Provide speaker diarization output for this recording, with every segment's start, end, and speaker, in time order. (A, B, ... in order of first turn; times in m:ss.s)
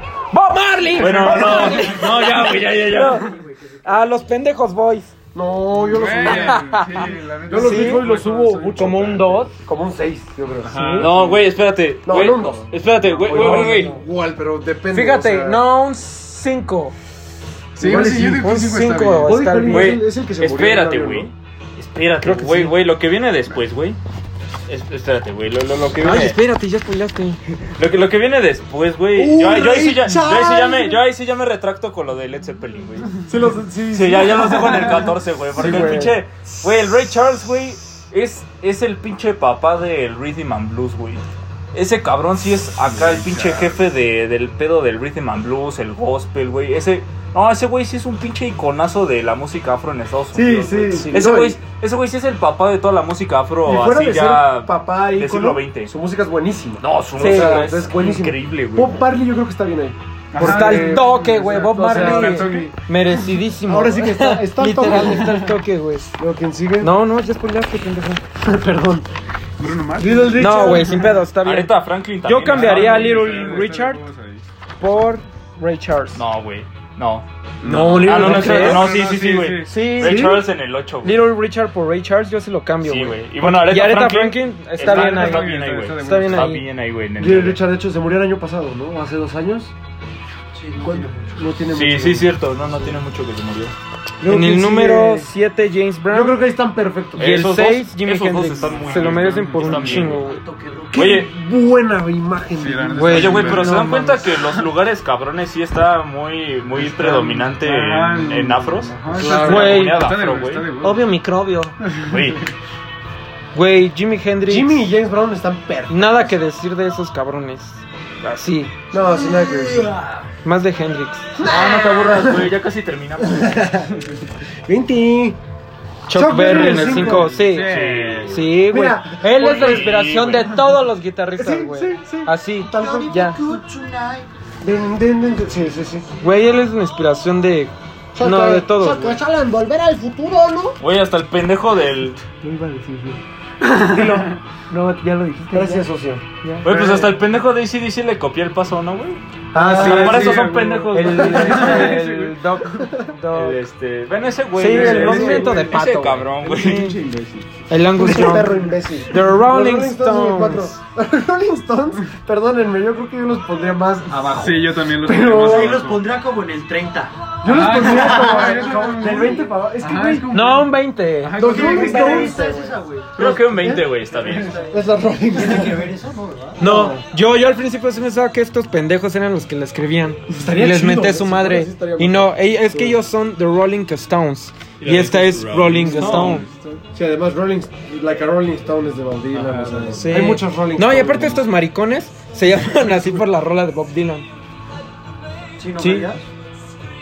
0:00.3-0:03.2 A
0:01.0-0:03.4 B
0:01.2-0:01.5 C
0:01.5-0:04.2 D
0:03.8-0:05.1 A
0:05.3-0:06.8 C
0:05.7-0:09.3 E
0:06.2-0:08.1 A
0:07.5-0:10.8 C
0:08.7-0:09.5 A
0:10.6-0:11.4 E
0:10.6-0:11.1 A
0:11.0-0:13.9 B
0:12.1-0:15.6 C
0:13.3-0:14.0 A
0:14.9-0:17.0 A
0:17.8-0:18.5 C
0:17.8-0:19.4 E
0:17.8-0:20.0 A
0:19.3-0:21.3 C
0:19.6-0:24.0 B
0:22.2-0:22.8 A
0:24.7-0:26.4 B
0:26.0-0:27.4 A
0:27.8-0:33.2 B
0:29.2-0:31.0 C
0:33.3-0:36.0 C
0:33.9-0:56.0 B
0:35.6-0:36.2 A
0:42.9-0:43.8 E
0:50.3-0:51.6 C
0:51.0-0:51.2 A
0:53.6-1:02.7 C
0:56.8-0:59.0 B
0:57.2-0:57.7 A
1:00.3-1:02.8 E
1:00.4-1:06.1 A
1:02.0-1:02.5 B
1:03.7-1:05.5 C
1:06.2-1:06.9 C
1:06.8-1:08.2 A
1:08.4-1:09.1 C
1:09.6-1:11.0 E
1:10.0-1:11.2 C
1:10.4-1:11.7 A
1:11.4-1:13.5 B
1:12.2-1:14.0 A
1:12.5-1:14.5 E
1:14.8-1:16.2 A
1:16.1-1:21.3 B
1:17.6-1:19.9 E
1:17.7-1:18.8 C
1:18.0-1:18.9 A
1:19.7-1:20.4 A
1:20.0-1:20.4 C
1:21.0-1:26.6 A
1:22.8-1:27.6 B
1:24.8-1:26.6 E
1:27.2-1:29.7 C
1:30.5-1:31.6 D
1:30.8-1:32.3 C
1:31.7-1:33.8 B
1:34.2-1:35.3 C
1:34.2-1:36.4 A
1:36.1-1:37.3 C
1:37.2-1:40.3 B
1:37.2-1:40.4 A
1:38.8-1:40.2 E
1:40.1-1:41.2 D
1:40.9-1:41.3 B
1:40.9-1:43.3 C
1:42.5-1:44.6 E
1:42.9-1:44.3 A
1:43.1-1:50.7 B
1:46.8-1:51.1 E
1:49.2-1:50.1 A
1:49.2-1:49.8 C
1:50.8-1:51.8 A
1:51.8-1:52.5 E
1:52.1-1:52.4 B
1:53.5-1:54.9 A
1:54.5-1:56.4 C
1:55.9-1:58.8 A
1:58.9-2:00.0 C
1:59.3-2:00.3 B
2:00.4-2:01.3 A
2:01.4-2:02.5 C
2:01.4-2:03.6 B
2:03.2-2:04.0 C
2:04.7-2:05.4 C
2:06.1-2:13.4 A
2:06.1-2:07.3 C
2:06.4-2:08.4 E
2:07.5-2:08.4 B
2:08.6-2:10.0 C
2:09.3-2:10.6 B
2:11.4-2:13.6 C
2:12.7-2:14.3 D
2:14.6-2:16.1 C
2:16.2-2:19.2 A
2:18.2-2:20.8 C
2:20.8-2:22.2 B
2:22.4-2:25.9 A
2:23.8-2:24.3 C
2:25.5-2:26.2 C
2:26.4-2:27.2 A
2:26.6-2:29.2 B
2:29.5-2:30.6 C
2:29.5-2:33.6 A
2:29.7-2:32.5 E
2:29.8-2:31.8 B
2:31.4-2:32.0 C
2:32.7-2:33.1 C
2:33.3-2:36.9 B
2:34.6-2:37.0 A
2:34.7-2:35.8 E
2:36.4-2:37.5 E
2:37.7-2:40.8 A
2:38.0-2:45.8 C
2:44.3-2:46.0 E
2:45.3-2:48.7 D
2:47.4-2:50.3 C
2:47.4-2:52.5 E
2:50.3-2:51.8 A
2:51.4-2:53.9 C
2:51.4-2:53.1 D
2:53.2-2:54.6 B
2:54.1-2:56.6 D
2:54.3-2:54.6 E
2:54.6-2:55.9 C
2:56.6-2:57.0 C
2:56.6-3:06.5 A
3:00.4-3:03.0 C
3:04.8-3:06.5 B
3:05.8-3:06.8 E
3:05.9-3:06.3 C
3:06.9-3:11.5 C
3:09.4-3:10.1 E
3:10.0-3:14.3 A
3:12.8-3:13.2 C
3:15.6-3:16.2 D
3:15.8-3:16.1 A